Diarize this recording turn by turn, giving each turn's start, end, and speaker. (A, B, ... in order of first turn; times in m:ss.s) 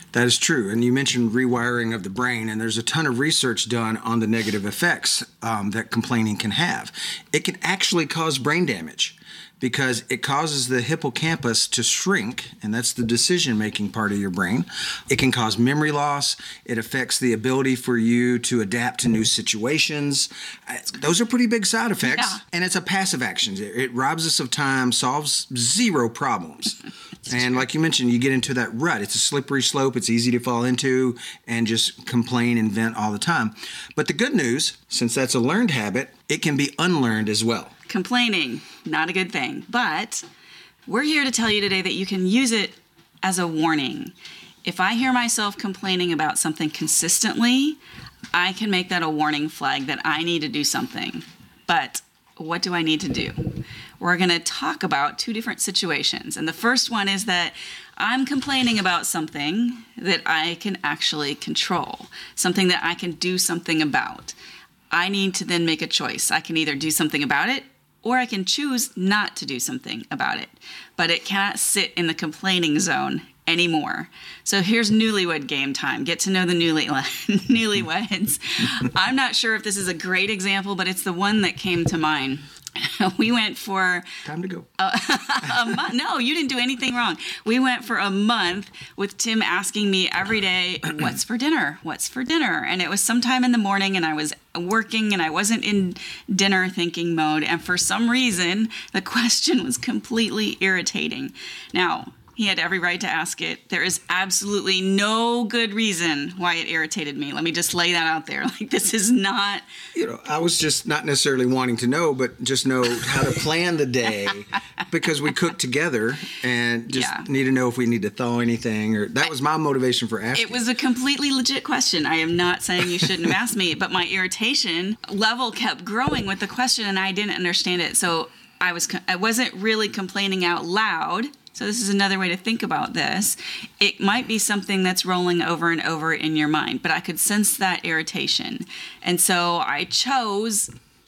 0:00.1-0:37.7 A
0:22.1-0:22.4 B
0:37.9-0:40.2 B
0:40.9-0:47.8 B
0:48.3-1:04.4 B
1:04.9-1:24.1 B
1:24.2-1:24.7 A
1:24.8-1:49.6 B
1:49.9-2:00.6 A
1:56.9-1:57.3 B
2:00.3-2:20.7 B